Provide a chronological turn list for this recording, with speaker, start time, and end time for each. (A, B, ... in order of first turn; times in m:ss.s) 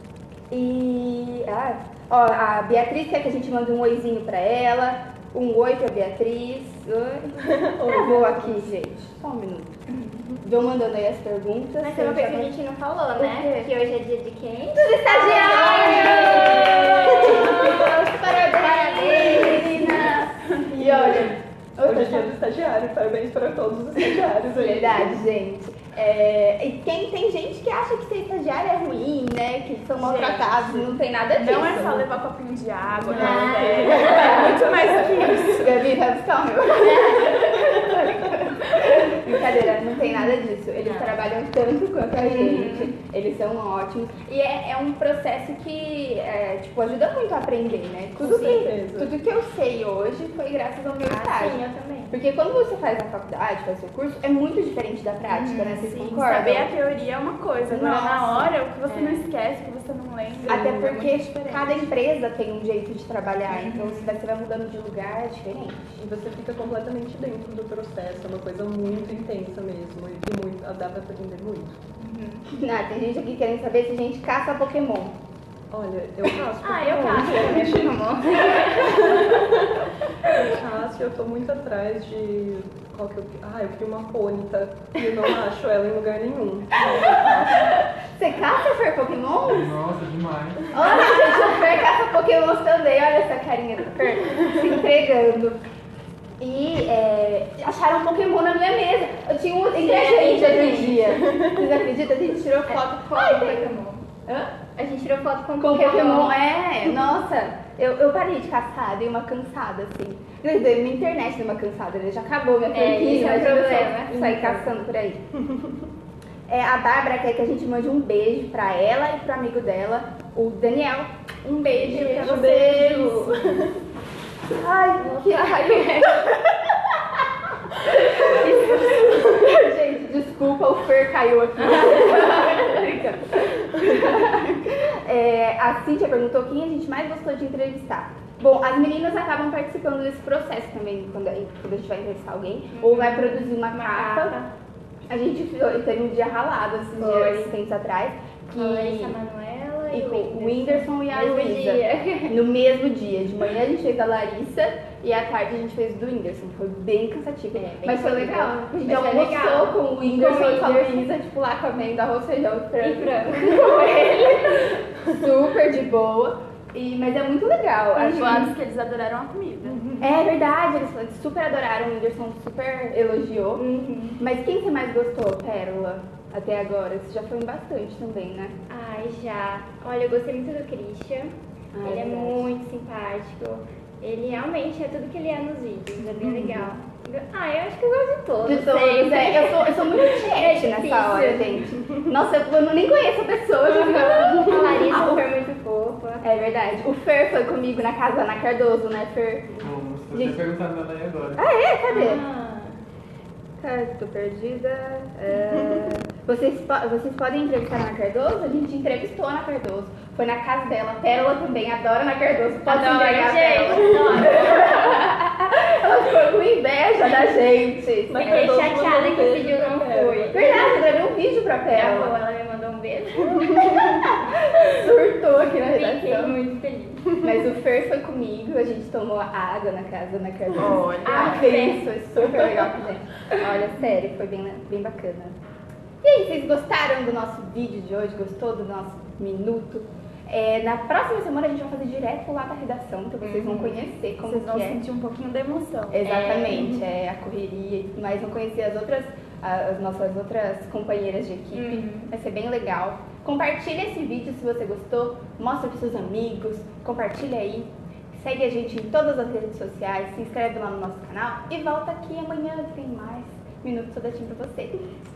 0:00.5-0:09.7 A
0:07.4-0:08.7 B
0:09.9-0:10.4 C
0:10.4-0:12.5 A
0:11.8-0:20.1 C
0:13.2-0:13.7 A
0:14.8-0:22.4 A
0:20.7-0:25.2 B
0:24.0-0:32.1 A
0:29.9-0:35.8 D
0:33.1-0:35.4 B
0:33.1-0:34.7 C
0:33.1-0:56.7 A
0:37.1-0:37.5 C
0:40.0-0:41.2 C
0:42.2-0:42.9 C
0:48.2-0:49.1 B
0:51.0-0:52.2 C
0:55.3-0:56.0 C
0:55.7-1:01.9 D
0:57.6-0:58.6 A
0:58.9-0:59.2 C
1:00.5-1:06.0 A
1:03.5-1:04.2 C
1:06.0-1:11.8 B
1:12.0-1:12.4 C
1:12.6-1:15.2 A
1:15.7-1:27.7 B
1:16.6-1:19.4 C
1:26.8-1:29.8 A
1:29.4-1:30.7 E
1:30.7-1:35.6 A
1:36.4-1:43.7 A
1:39.7-1:41.2 C
1:42.7-1:46.4 C
1:45.6-1:55.2 A
1:52.7-1:54.8 C
1:55.5-1:55.8 B
1:56.5-2:03.2 A
2:01.8-2:03.8 B
2:01.9-2:02.4 C
2:02.9-2:03.4 C
2:04.5-2:06.8 A
2:05.0-2:06.3 C
2:07.7-2:24.4 A
2:08.1-2:09.1 C
2:11.6-2:13.2 C
2:22.7-2:24.5 C
2:25.1-2:29.2 A
2:27.0-2:27.6 C
2:28.5-2:32.4 C
2:29.9-2:48.5 A
2:37.5-2:41.2 C
2:42.8-2:44.8 C
2:48.0-2:49.8 D
2:48.0-2:48.5 C
2:49.7-2:50.2 C
2:50.0-2:53.6 A
2:53.6-2:54.2 C
2:54.2-2:58.5 A
2:58.7-3:11.8 C
3:01.7-3:02.5 A
3:06.2-3:06.7 A
3:08.4-3:15.3 A
3:13.7-3:16.3 C
3:16.2-3:20.4 A
3:19.6-3:21.4 E
3:21.4-3:22.2 A
3:21.9-3:22.8 C
3:23.6-3:38.5 A
3:32.6-3:35.0 C
3:38.1-3:40.4 B
3:38.1-3:41.0 C
3:40.3-3:42.2 A
3:41.7-3:44.2 C
3:43.4-3:46.4 A
3:45.7-3:47.2 C
3:47.1-3:55.4 A
3:50.5-3:51.4 D
3:51.0-3:51.9 C
3:56.0-4:04.8 A
4:03.4-4:03.8 C
4:04.2-4:06.0 D
4:05.9-4:24.9 A
4:06.0-4:06.8 C
4:11.5-4:12.1 C